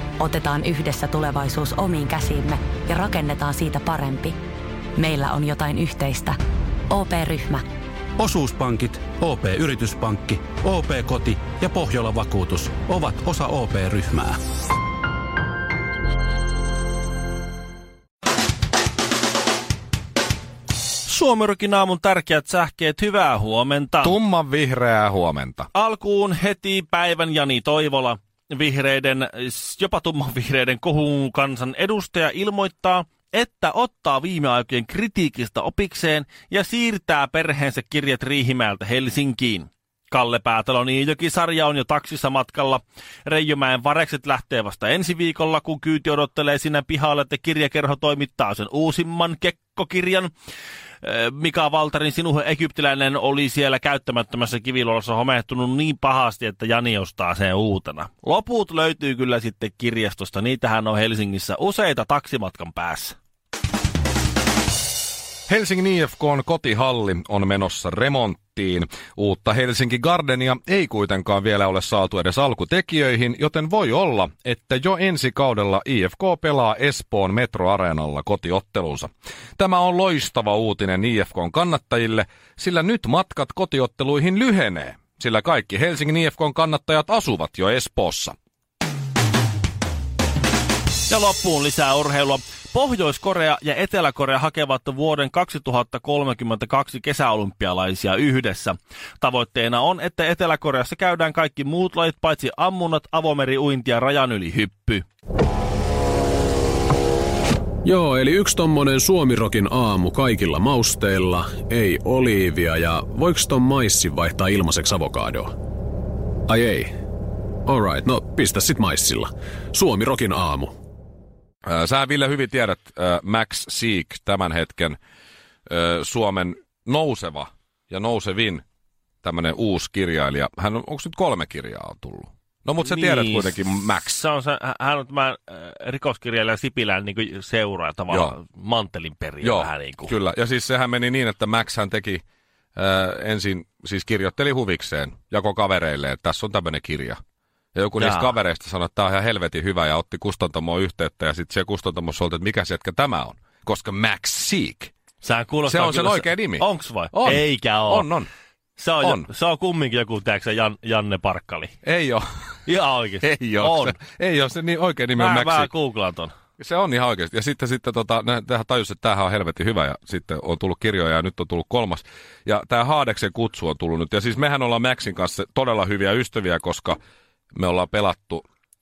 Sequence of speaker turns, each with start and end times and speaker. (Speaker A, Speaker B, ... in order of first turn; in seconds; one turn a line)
Speaker A: 0.2-4.3
Speaker A: 5.0-6.3
Speaker A: 6.9-7.7
Speaker B: 8.2-14.4
Speaker C: 21.1-24.1
Speaker D: 24.0-25.7
Speaker C: 25.7-50.3
Speaker C: 51.0-63.1
Speaker D: 65.5-88.3
Speaker C: 91.1-105.0
Speaker E: 107.8-115.5
Speaker E: 116.5-116.9
Speaker E: 117.7-120.7
Speaker D: 121.6-125.0
Speaker D: 125.7-128.6
Speaker D: 129.2-134.2
Speaker C: 132.8-140.1
Speaker D: 138.1-138.3
Speaker D: 139.4-142.2
Speaker D: 142.8-147.2
Speaker D: 147.7-154.9
Speaker C: 148.0-148.3
Speaker C: 155.2-158.1
Speaker D: 155.6-158.3
Speaker C: 158.8-161.7
Speaker D: 159.0-159.3
Speaker D: 161.8-162.6
Speaker C: 162.7-164.0
Speaker D: 163.2-165.7
Speaker C: 165.2-166.3
Speaker D: 166.6-177.0
Speaker D: 177.5-178.4